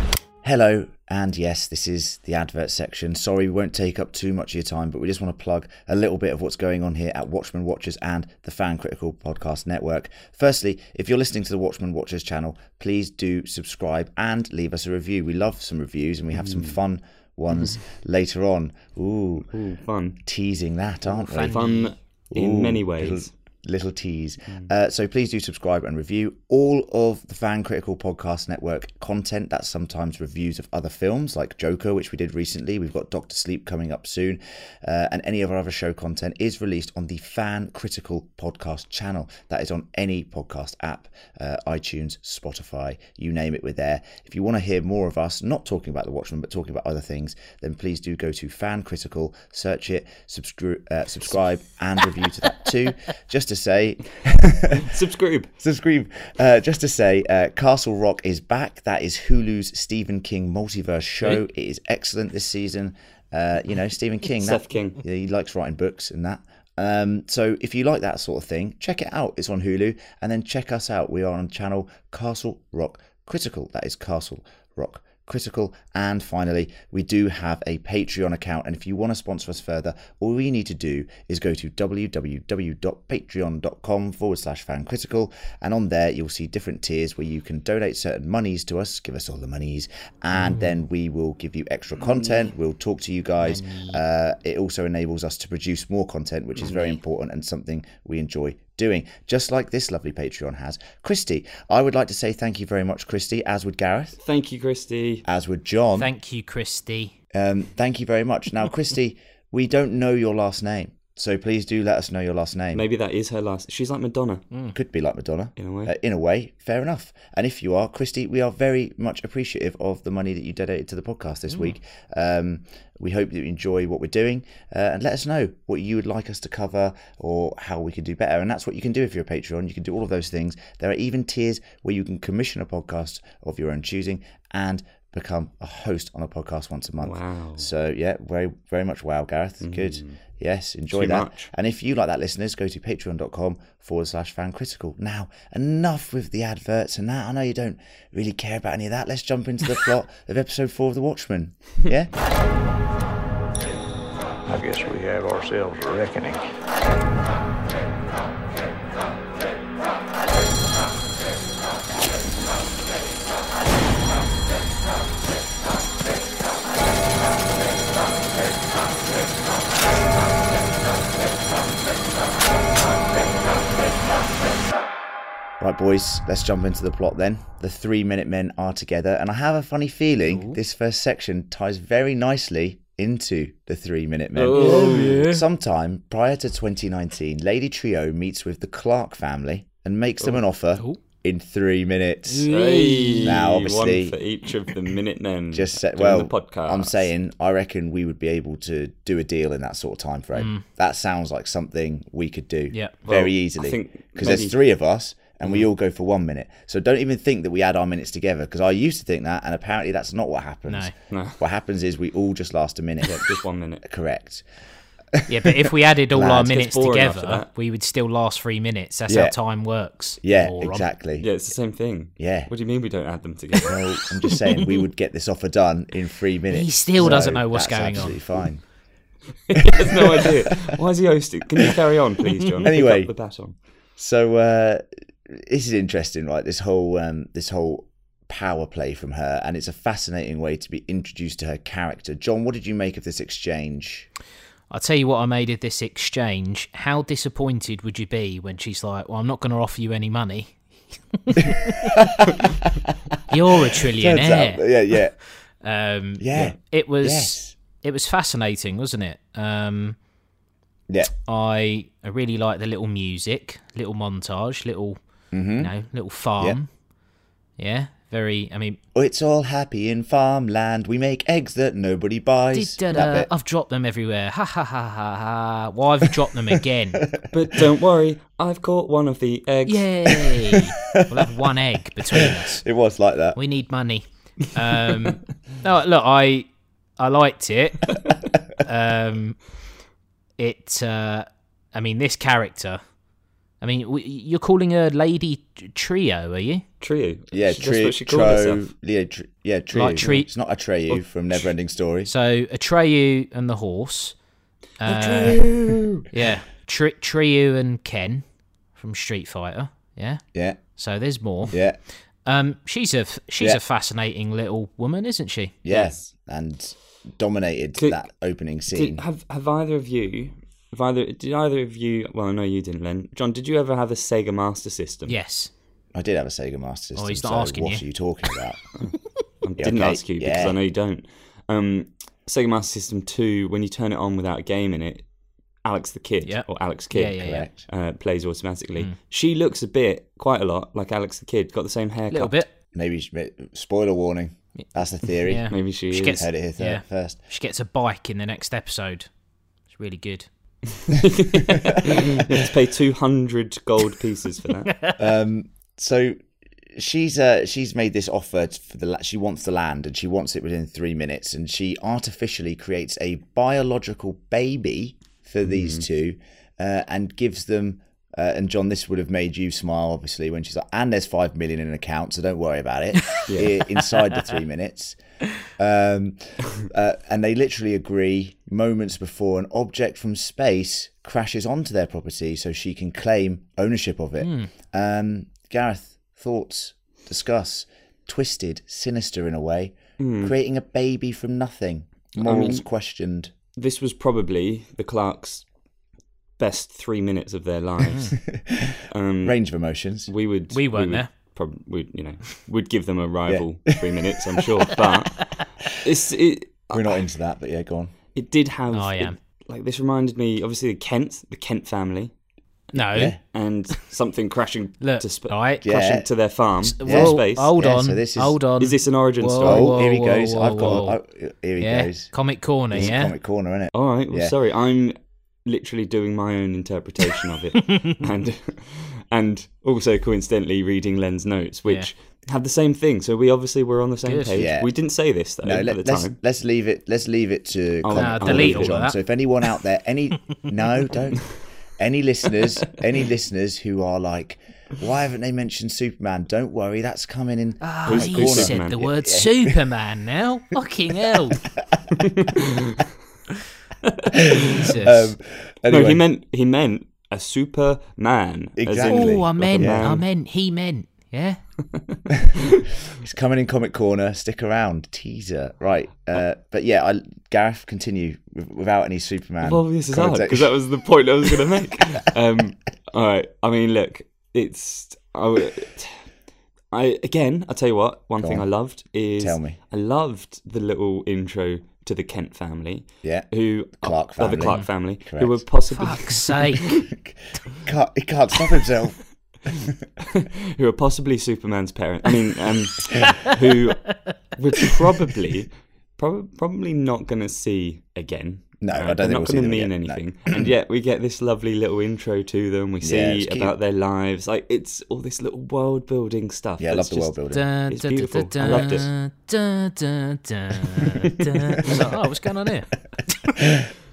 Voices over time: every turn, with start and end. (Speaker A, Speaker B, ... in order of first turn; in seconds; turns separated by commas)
Speaker A: 0.4-19.5, Speaker B: 16.3-16.8, Speaker B: 19.5-20.2, Speaker A: 20.2-21.6, Speaker C: 21.1-21.9, Speaker B: 21.4-23.3, Speaker A: 22.3-54.9, Speaker B: 54.7-55.5, Speaker A: 55.6-104.2, Speaker B: 64.4-65.0, Speaker C: 90.3-90.7, Speaker C: 93.4-94.0, Speaker B: 96.6-97.0, Speaker B: 104.2-105.2, Speaker A: 105.2-106.1, Speaker C: 106.0-107.1, Speaker A: 107.3-112.9, Speaker B: 112.7-114.5, Speaker A: 114.7-152.1, Speaker B: 115.6-115.9, Speaker B: 137.0-137.7, Speaker B: 139.6-140.2, Speaker B: 140.9-141.5, Speaker D: 154.5-156.4, Speaker A: 175.6-192.5, Speaker C: 180.3-180.6, Speaker B: 184.3-185.2, Speaker C: 184.5-185.4, Speaker C: 192.3-193.4, Speaker B: 192.5-197.1, Speaker A: 193.2-194.2, Speaker A: 195.5-213.2, Speaker C: 200.3-200.6, Speaker C: 202.7-203.0, Speaker B: 203.1-204.6, Speaker C: 210.7-210.9, Speaker B: 211.1-211.4, Speaker B: 213.0-213.8, Speaker A: 213.8-214.4, Speaker A: 215.1-216.5, Speaker C: 215.3-220.9, Speaker B: 216.4-217.5, Speaker A: 219.1-219.4, Speaker A: 220.2-221.3, Speaker B: 221.2-223.8, Speaker A: 222.2-222.5, Speaker A: 223.7-228.6, Speaker C: 226.5-228.2, Speaker B: 229.5-233.6, Speaker A: 229.6-230.3, Speaker A: 232.6-233.1, Speaker A: 234.0-244.1, Speaker C: 244.7-250.6, Speaker C: 251.1-251.9, Speaker A: 251.8-252.7, Speaker C: 253.3-254.7, Speaker A: 253.7-255.2, Speaker C: 255.6-259.9, Speaker A: 256.2-257.5, Speaker C: 261.2-265.0, Speaker A: 265.3-265.7, Speaker C: 265.6-266.7, Speaker C: 267.6-268.8, Speaker A: 268.9-273.3, Speaker C: 272.5-277.1, Speaker A: 277.1-277.6, Speaker B: 277.3-280.2, Speaker C: 279.6-282.6, Speaker A: 280.9-281.3, Speaker A: 282.1-283.4, Speaker C: 283.3-287.9, Speaker C: 288.6-289.4, Speaker C: 290.4-292.8, Speaker C: 293.6-296.6, Speaker B: 296.8-298.6, Speaker A: 297.3-302.1, Speaker C: 299.7-300.3, Speaker B: 300.9-301.4, Speaker C: 302.1-304.1, Speaker C: 304.8-305.5, Speaker B: 304.8-306.1, Speaker C: 306.1-310.2, Speaker A: 310.3-310.6, Speaker C: 310.8-311.6, Speaker A: 311.5-311.8, Speaker C: 312.2-315.9, Speaker A: 315.6-319.0, Speaker B: 318.7-325.1, Speaker C: 325.1-325.5, Speaker A: 325.9-328.6, Speaker C: 326.9-327.8, Speaker B: 328.8-335.1, Speaker A: 329.6-330.6, Speaker B: 335.6-342.4, Speaker C: 336.2-337.5, Speaker A: 337.2-337.7, Speaker C: 342.1-342.5, Speaker A: 342.7-347.2, Speaker C: 345.2-349.1, Speaker B: 345.5-346.3, Speaker C: 349.7-350.3, Speaker B: 350.8-354.7, Speaker A: 355.0-356.2, Speaker A: 356.7-375.0, Speaker B: 365.4-365.8, Speaker B: 373.3-373.5, Speaker A: 375.6-393.3, Speaker C: 384.2-384.5, Speaker B: 390.0-390.3, Speaker B: 392.2-392.6, Speaker B: 393.6-395.4, Speaker B: 396.4-398.2, Speaker A: 398.3-400.1, Speaker B: 398.9-399.4, Speaker B: 400.0-407.0, Speaker C: 400.5-401.1, Speaker A: 403.3-403.8, Speaker C: 405.1-405.4, Speaker A: 406.7-407.9, Speaker B: 408.1-412.1, Speaker C: 408.7-409.1, Speaker C: 412.7-413.1, Speaker B: 412.7-417.5, Speaker A: 412.9-413.2, Speaker C: 414.8-415.8, Speaker A: 415.6-416.1, Speaker C: 416.6-420.9, Speaker A: 416.8-418.4, Speaker B: 418.6-419.8, Speaker A: 419.4-422.1, Speaker C: 421.6-423.1, Speaker A: 422.7-424.3, Speaker B: 423.7-436.2, Speaker C: 427.7-428.0, Speaker C: 434.0-434.4, Speaker A: 434.4-434.7, Speaker A: 435.4-449.5, Speaker B: 437.8-438.8, Speaker C: 437.9-439.0, Speaker C: 447.6-451.4, Speaker B: 447.9-448.8, Speaker B: 451.9-452.9, Speaker B: 453.8-454.7, Speaker A: 454.3-456.0, Speaker C: 454.5-455.1, Speaker B: 455.7-460.0, Speaker A: 458.6-459.9, Speaker C: 458.8-461.4, Speaker B: 461.7-462.7, Speaker A: 462.9-470.6, Speaker B: 469.4-476.1, Speaker B: 476.7-486.9, Speaker A: 478.2-478.5, Speaker A: 479.2-479.6, Speaker A: 483.0-485.4, Speaker C: 484.4-484.7, Speaker C: 485.7-486.6, Speaker A: 487.0-489.7, Speaker B: 490.1-508.9, Speaker A: 498.6-500.5, Speaker A: 502.8-503.5, Speaker A: 506.6-507.4, Speaker C: 507.3-512.7, Speaker A: 508.4-508.8, Speaker A: 513.4-513.7